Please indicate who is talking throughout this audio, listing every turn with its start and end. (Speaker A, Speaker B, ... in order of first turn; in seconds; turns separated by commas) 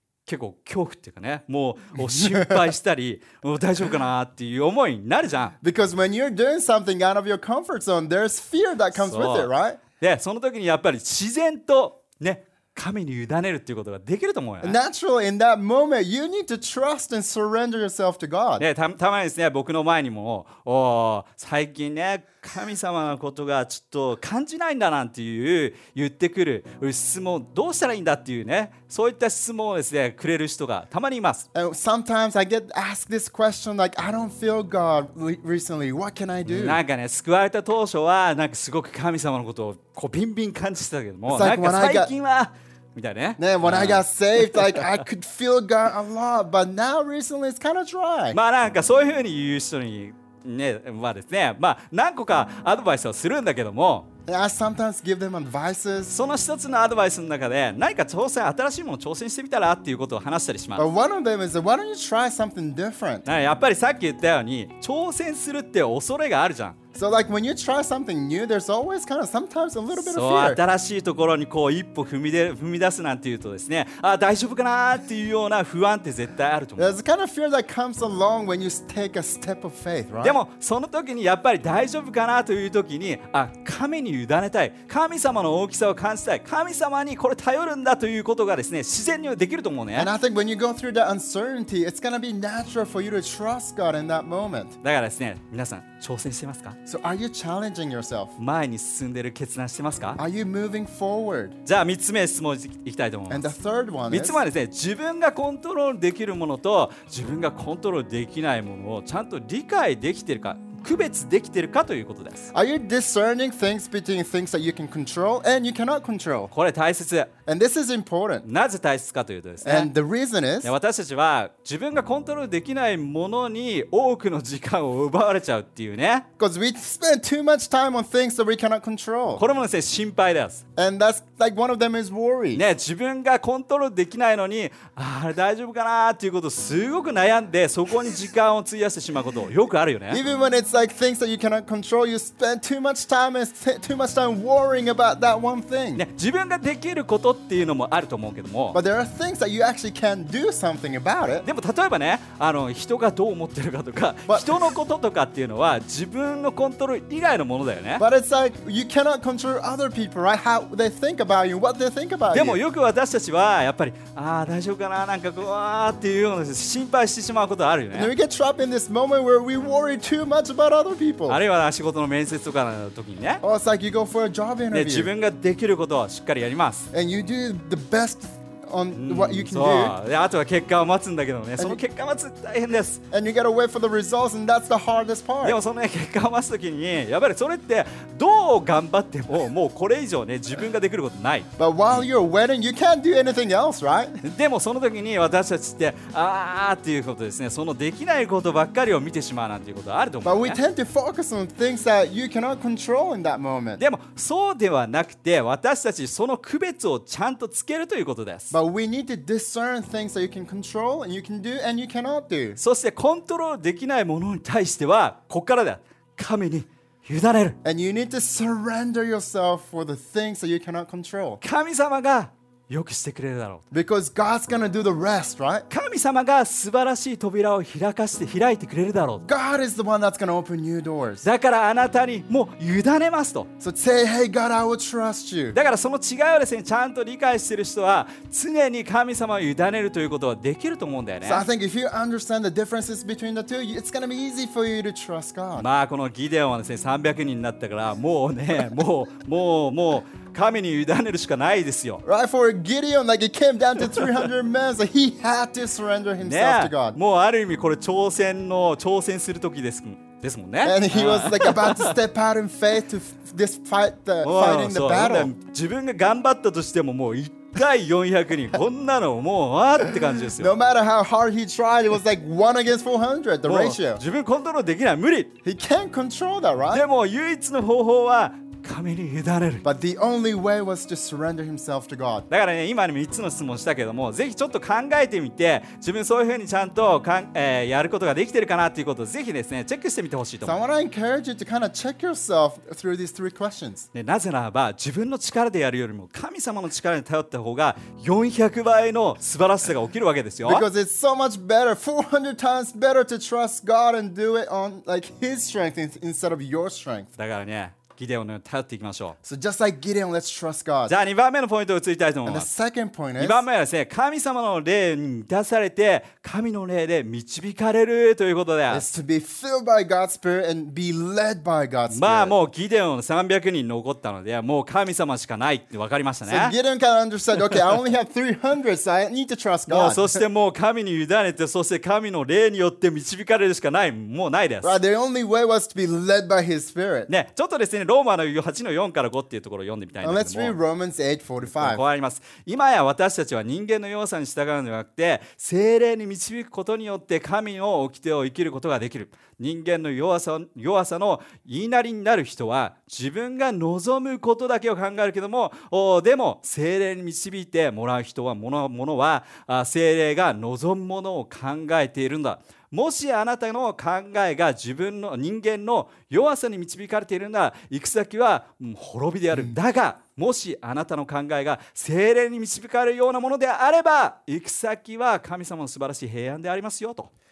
Speaker A: 0.2-5.5, Speaker B: 2.0-2.7, Speaker B: 5.6-9.8, Speaker A: 8.9-14.8, Speaker B: 14.6-18.6, Speaker A: 18.6-31.4, Speaker B: 31.5-36.8, Speaker A: 36.5-45.0, Speaker B: 41.3-42.1, Speaker B: 43.4-48.4, Speaker A: 48.3-54.0, Speaker B: 54.3-56.1, Speaker A: 56.1-60.9, Speaker B: 60.8-63.2, Speaker A: 63.2-66.8, Speaker B: 66.9-70.6, Speaker A: 69.9-76.9, Speaker B: 76.8-80.4, Speaker A: 80.2-90.1, Speaker B: 90.0-94.8, Speaker A: 94.8-96.8, Speaker B: 96.8-98.3, Speaker A: 98.4-100.2, Speaker B: 100.2-101.6, Speaker A: 101.7-103.5, Speaker B: 103.3-104.4, Speaker A: 104.1-112.5, Speaker B: 112.5-116.5, Speaker A: 116.5-117.3, Speaker B: 117.5-118.5, Speaker A: 118.4-119.9, Speaker B: 119.6-120.7, Speaker A: 120.6-126.2, Speaker B: 126.4-129.4, Speaker A: 129.3-130.6, Speaker B: 130.8-132.6, Speaker A: 132.5-140.2, Speaker B: 140.1-146.0, Speaker A: 145.9-148.8, Speaker B: 148.7-151.4, Speaker A: 151.4-158.0, Speaker B: 154.3-154.7, Speaker B: 158.0-162.6, Speaker A: 162.3-168.1, Speaker B: 167.9-171.4, Speaker A: 171.3-173.4, Speaker B: 173.4-175.1, Speaker A: 174.7-176.9, Speaker B: 176.9-179.9, Speaker A: 178.9-183.0, Speaker B: 183.1-185.6, Speaker A: 185.4-192.0, Speaker B: 191.6-194.2, Speaker A: 194.2-200.6, Speaker B: 200.2-203.8, Speaker A: 203.8-208.6, Speaker B: 208.5-212.6, Speaker A: 212.6-217.6, Speaker B: 217.6-221.4, Speaker A: 221.4-223.6, Speaker B: 223.7-225.7, Speaker A: 225.7-229.2, Speaker B: 229.2-231.2, Speaker A: 231.2-233.5, Speaker B: 233.6-235.6, Speaker A: 235.5-241.4, Speaker B: 241.2-245.7, Speaker A: 245.6-252.0, Speaker B: 252.0-257.0, Speaker A: 256.2-262.0, Speaker B: 260.6-265.3, Speaker A: 264.2-270.5, Speaker B: 270.1-274.0, Speaker A: 273.4-275.3, Speaker B: 275.4-276.8, Speaker A: 276.7-279.6, Speaker B: 279.6-282.3, Speaker A: 282.3-290.5, Speaker B: 290.4-293.9, Speaker A: 293.9-300.6, Speaker B: 300.4-307.1, Speaker A: 307.2-309.1, Speaker B: 309.2-310.9, Speaker A: 310.9-312.5, Speaker B: 312.2-313.4, Speaker A: 313.2-318.8, Speaker B: 318.7-322.3, Speaker A: 321.9-326.5, Speaker B: 326.3-330.2, Speaker A: 329.7-334.8, Speaker B: 334.6-337.1, Speaker A: 337.1-340.6, Speaker B: 340.0-341.8, Speaker A: 341.4-377.1, Speaker B: 369.3-369.6